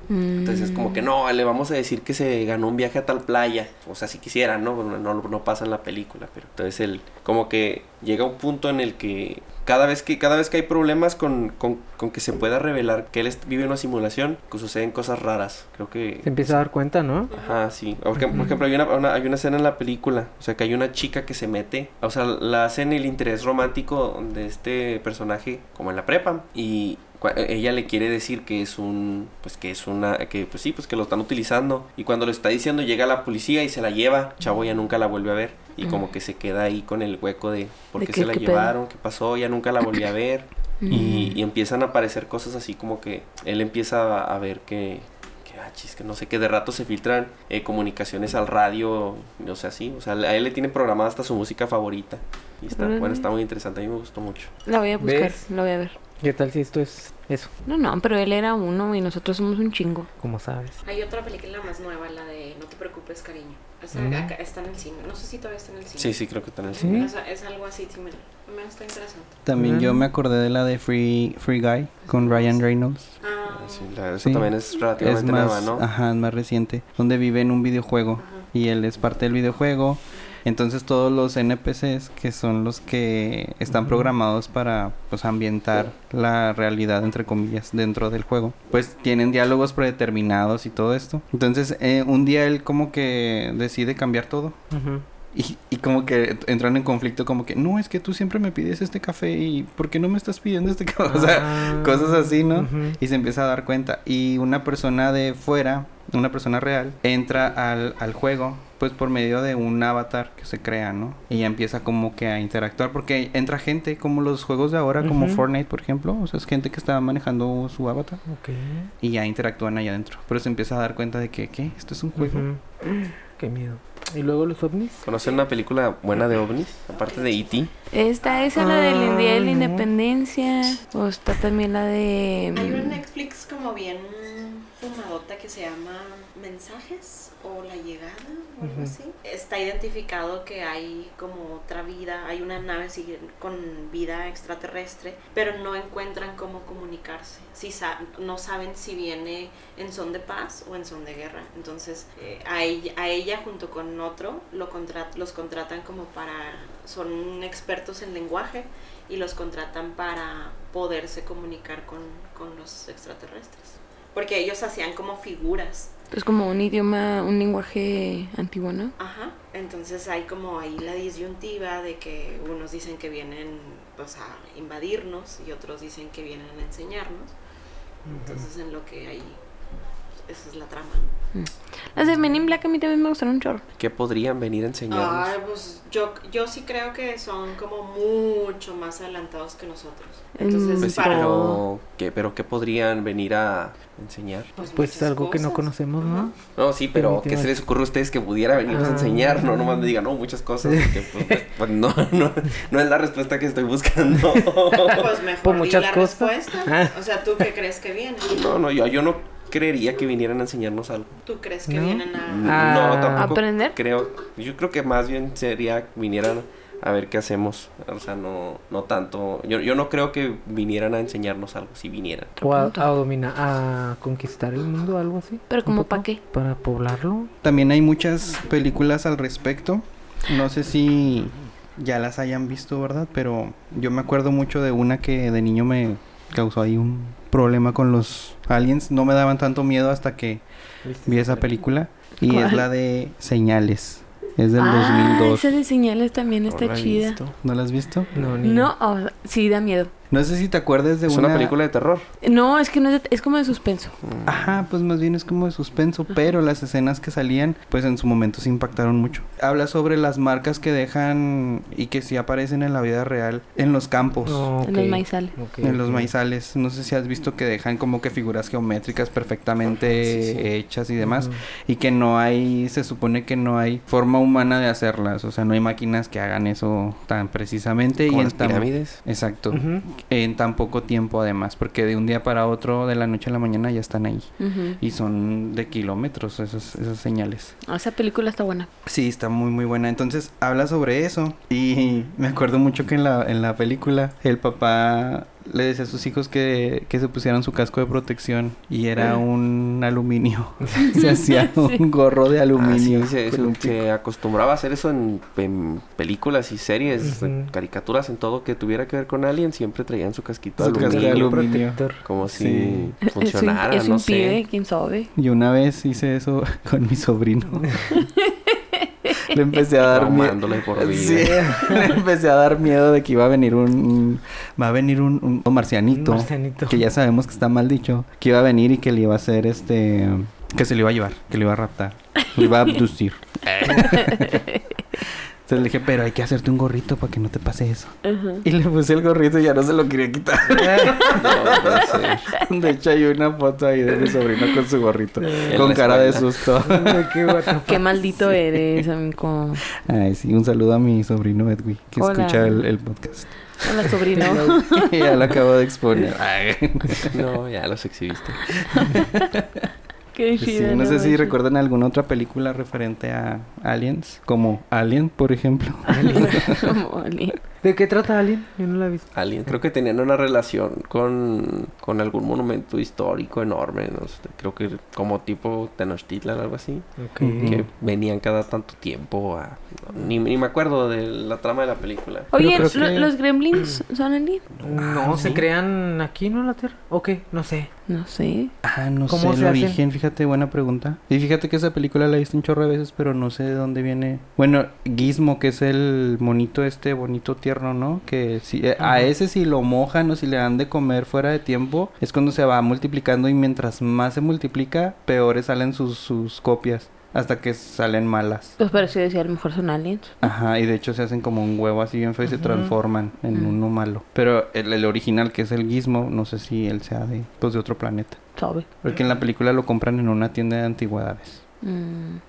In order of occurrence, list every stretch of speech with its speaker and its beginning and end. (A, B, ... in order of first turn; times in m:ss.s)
0:00.1-0:01.1 A
0:00.4-0:16.6 B
0:16.2-0:17.3 C
0:17.3-0:17.6 D
0:17.3-0:54.5 B
0:38.0-0:38.8 A
0:40.8-0:41.4 A
0:40.9-0:41.4 E
0:52.7-0:53.3 A
0:54.7-0:56.0 A
0:55.0-0:55.4 C
0:56.2-0:57.5 C
0:57.7-1:00.1 A
1:00.2-1:00.8 C
1:00.8-1:09.4 D
1:04.0-1:04.3 C
1:06.0-1:07.1 B
1:06.8-1:07.1 C
1:09.5-1:13.1 E
1:09.6-1:10.0 C
1:12.1-1:12.6 D
1:13.2-1:14.0 D
1:13.5-1:15.8 B
1:14.2-1:34.6 E
1:18.2-1:18.5 D
1:23.8-1:24.1 C
1:34.7-1:35.0 C
1:35.3-1:58.2 E
1:41.1-1:43.0 C
1:55.0-1:55.4 C
1:58.3-1:58.9 C
1:59.0-2:02.5 E
2:02.2-2:05.0 C
2:05.0-2:07.7 B
2:05.1-2:05.5 D
2:07.0-2:07.5 D
2:07.9-2:13.0 A
2:08.2-2:08.6 D
2:08.6-2:09.8 C
2:12.5-2:45.9 D
2:18.6-2:19.0 C
2:46.1-2:49.0 A
2:49.0-2:57.3 D
2:58.1-2:58.4 C
2:58.1-2:59.4 D
3:00.2-3:01.1 D
3:01.3-3:03.6 A
3:03.8-3:05.4 B
3:04.9-3:11.5 D
3:10.4-3:11.6 A
3:10.8-3:14.5 B
3:14.6-3:16.3 D
3:14.7-3:16.4 C
3:16.6-3:25.2 B
3:16.9-3:17.6 C
3:18.7-3:19.5 C
3:20.6-3:21.4 C
3:24.7-3:27.0 C
3:24.9-3:28.5 D
3:28.3-3:31.2 B
3:31.2-3:32.9 D
3:31.7-3:33.4 C
3:32.2-3:42.4 B
3:33.2-3:33.8 A
3:42.4-3:47.3 C
3:42.5-3:42.8 A
3:45.5-3:46.2 A
3:47.4-4:00.4 E
4:00.8-4:01.6 C
4:01.0-4:05.6 E
4:02.2-4:02.6 A
4:04.6-4:07.2 A
4:06.5-4:07.4 B
4:07.4-4:08.1 E
4:08.1-4:08.7 C
4:08.4-4:09.9 A
4:10.1-4:11.5 E
4:11.1-4:12.1 B
4:12.2-4:14.0 A
4:14.0-4:14.6 B
4:14.3-4:24.5 E
4:24.3-4:26.1 C
4:24.6-4:25.3 A
4:25.6-4:47.5 E
4:30.0-4:30.5 B
4:31.0-4:31.4 C
4:38.1-4:39.0 B
4:39.5-4:39.8 C
4:44.4-4:44.8 A
4:47.7-4:48.7 A
4:48.8-5:03.8 E
5:00.8-5:01.8 A
5:02.6-5:14.4 B
5:07.0-5:07.5 C
5:10.6-5:12.9 E
5:10.6-5:12.0 C
5:13.1-5:15.1 A
5:15.2-5:18.0 E
5:17.9-5:19.2 A
5:19.2-5:34.4 E
5:19.9-5:21.7 B
5:25.9-5:26.8 C
5:33.9-5:34.6 A
5:35.0-5:47.2 E
5:38.0-5:38.4 A
5:40.5-5:41.2 C
5:41.2-5:42.3 B
5:45.2-5:45.6 C
5:45.4-5:46.3 B
5:46.6-5:47.8 C
5:47.7-5:49.6 A
5:49.8-5:57.2 E
5:52.0-5:52.7 A
5:53.6-5:55.1 A
5:57.1-5:58.6 B
5:58.8-5:59.7 E
6:00.1-6:01.4 A
6:00.4-6:06.7 E
6:05.9-6:06.4 C
6:06.1-6:07.4 A
6:07.6-6:09.1 C
6:09.1-6:22.8 B
6:17.0-6:17.6 C
6:17.2-6:17.7 E
6:22.3-6:24.4 A
6:22.4-6:23.1 E
6:24.5-6:25.5 B
6:24.6-6:27.7 C
6:27.9-6:28.5 A
6:28.6-6:48.6 E
6:29.1-6:29.8 C
6:38.8-6:39.1 C
6:48.6-6:50.3 A
6:50.2-6:58.2 E
6:52.3-6:52.7 C
6:58.4-6:58.7 A
6:58.8-7:01.4 E
7:01.6-7:02.2 A